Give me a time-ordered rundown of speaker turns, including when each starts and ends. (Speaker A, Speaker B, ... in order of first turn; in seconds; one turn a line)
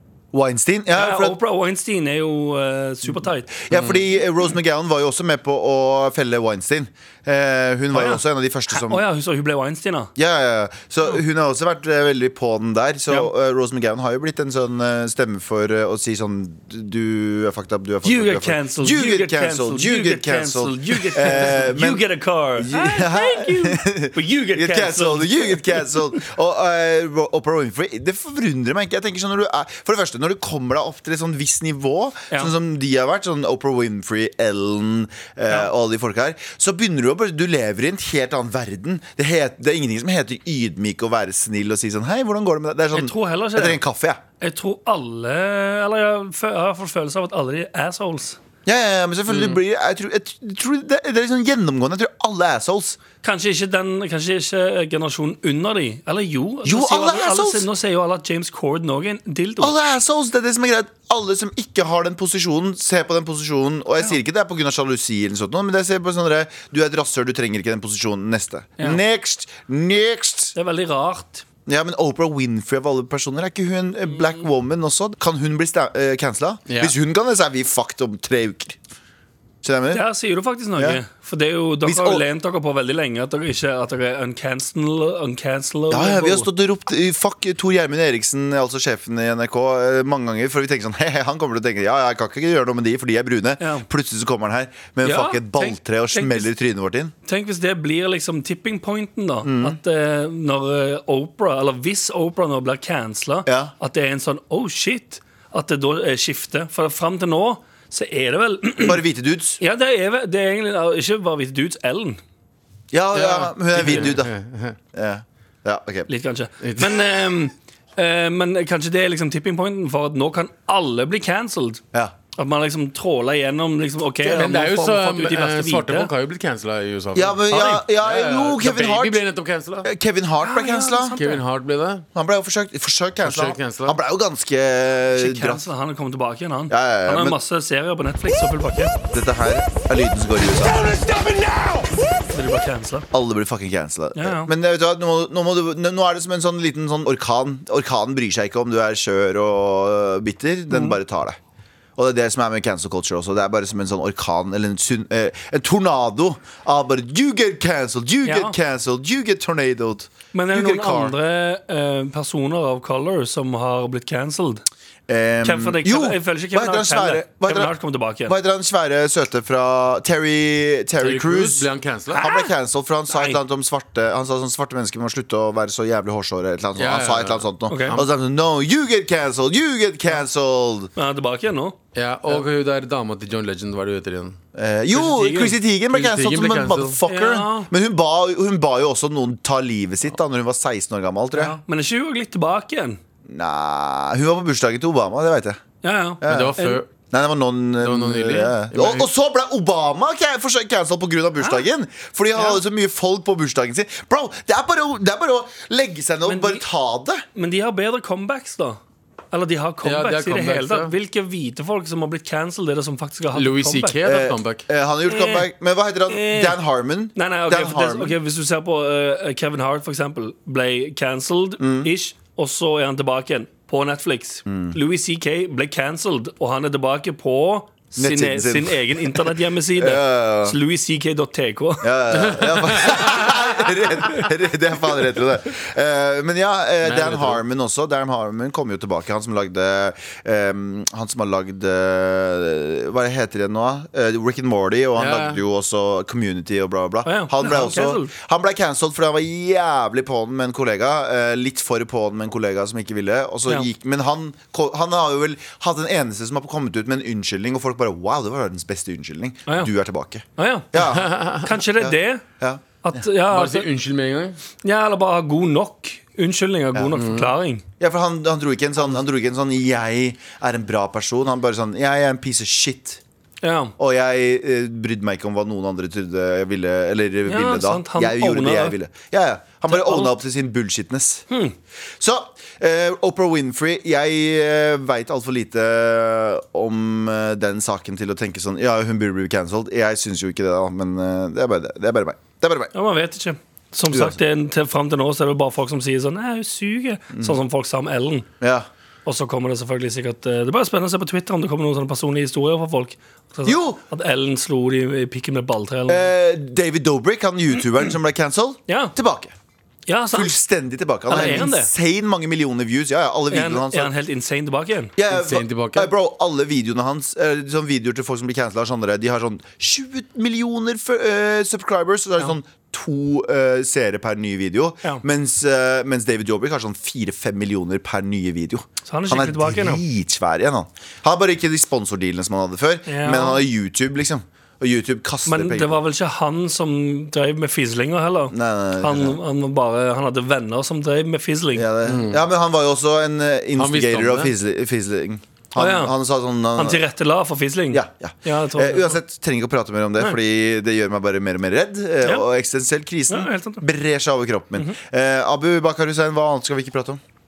Speaker A: 0.3-1.4
Speaker B: 0.9-3.7
Speaker A: 3.5-9.0
Speaker C: 3.7-4.0
Speaker B: 7.9-10.1
Speaker A: 10.2-22.0
Speaker B: 18.0-26.2
Speaker A: 22.6-44.2
Speaker B: 42.9-43.8
Speaker B: 44.4-48.4
Speaker A: 48.6-53.0
Speaker C: 49.3-49.6
Speaker B: 53.2-59.7
Speaker A: 56.6-57.6
Speaker A: 59.6-70.5
Speaker B: 70.5-71.4
Speaker A: 71.7-78.8
Speaker C: 76.7-76.9
Speaker A: 79.6-80.0
Speaker B: 79.9-86.5
Speaker A: 81.8-82.2
Speaker A: 85.9-97.1
Speaker B: 93.6-93.8
Speaker B: 95.0-96.5
Speaker B: 97.2-109.0
Speaker A: 99.4-99.8
Speaker A: 103.5-103.7
Speaker A: 108.8-109.6
Speaker B: 109.6-112.2
Speaker A: 112.9-114.3
Speaker C: 113.1-114.8
Speaker A: 114.9-116.1
Speaker B: 116.1-121.8
Speaker C: 116.6-117.0
Speaker B: 122.3-126.1
Speaker A: 124.2-124.6
Speaker C: 124.3-129.9
Speaker A: 127.1-129.2
Speaker B: 127.5-127.8
Speaker A: 129.8-131.2
Speaker B: 130.4-131.4
Speaker C: 131.2-132.0
Speaker A: 132.1-135.7
Speaker C: 133.2-134.0
Speaker B: 135.1-138.9
Speaker A: 136.7-137.4
Speaker A: 139.1-141.0
Speaker B: 141.0-143.1
Speaker A: 143.1-151.4
Speaker B: 144.1-144.5
Speaker B: 150.7-151.0
Speaker A: 151.9-161.2
Speaker B: 158.2-158.6
Speaker B: 160.3-164.6
Speaker A: 165.1-167.7
Speaker B: 165.4-168.3
Speaker A: 168.2-180.9
Speaker C: 171.0-172.2
Speaker B: 172.1-172.5
Speaker B: 173.1-173.4
Speaker C: 176.8-178.1
Speaker B: 177.7-178.0
Speaker B: 180.9-181.8
Speaker C: 181.9-184.4
Speaker A: 184.5-191.6
Speaker B: 184.9-185.5
Speaker C: 185.9-187.0
Speaker B: 187.1-187.7
Speaker B: 191.3-193.0
Speaker A: 193.3-195.6
Speaker B: 195.8-196.8
Speaker A: 196.2-196.6
Speaker C: 196.2-196.9
Speaker A: 197.1-207.2
Speaker C: 197.8-199.1
Speaker B: 202.3-202.6
Speaker B: 206.2-206.6
Speaker B: 207.3-208.8
Speaker B: 209.3-214.0
Speaker C: 209.8-210.9
Speaker C: 213.3-214.6
Speaker A: 214.0-218.2
Speaker B: 215.1-215.5
Speaker B: 216.1-216.6
Speaker B: 217.1-232.3
Speaker A: 221.6-221.9
Speaker A: 224.4-224.8
Speaker A: 228.0-230.6
Speaker A: 231.8-261.2
Speaker C: 232.1-233.4
Speaker C: 236.8-237.4
Speaker C: 245.0-245.4
Speaker B: 247.0-248.1
Speaker B: 259.4-259.7
Speaker B: 260.4-260.7
Speaker C: 260.8-261.5
Speaker B: 261.4-262.2
Speaker A: 261.8-263.0
Speaker B: 262.8-263.7
Speaker C: 263.3-264.4
Speaker B: 264.6-267.6
Speaker C: 267.0-267.3
Speaker A: 267.8-273.0
Speaker B: 273.4-273.7
Speaker A: 273.8-281.3
Speaker B: 277.3-278.8
Speaker B: 279.7-280.2
Speaker B: 281.3-281.5
Speaker A: 282.0-292.7
Speaker B: 292.7-298.3
Speaker A: 293.9-294.2
Speaker A: 298.4-298.7
Speaker B: 299.1-306.1
Speaker A: 303.4-303.8
Speaker A: 305.9-309.3
Speaker B: 308.7-308.9
Speaker B: 309.9-310.3
Speaker A: 310.1-313.9
Speaker B: 311.1-311.7
Speaker B: 313.3-314.9
Speaker A: 314.9-335.8
Speaker C: 315.1-315.9
Speaker B: 328.9-329.8
Speaker B: 332.9-333.4
Speaker B: 335.2-341.7
Speaker A: 338.3-339.2
Speaker A: 341.5-346.8
Speaker C: 341.8-342.2
Speaker C: 343.6-344.3
Speaker B: 345.6-345.9
Speaker B: 346.6-349.0
Speaker A: 347.7-357.0
Speaker B: 353.1-353.6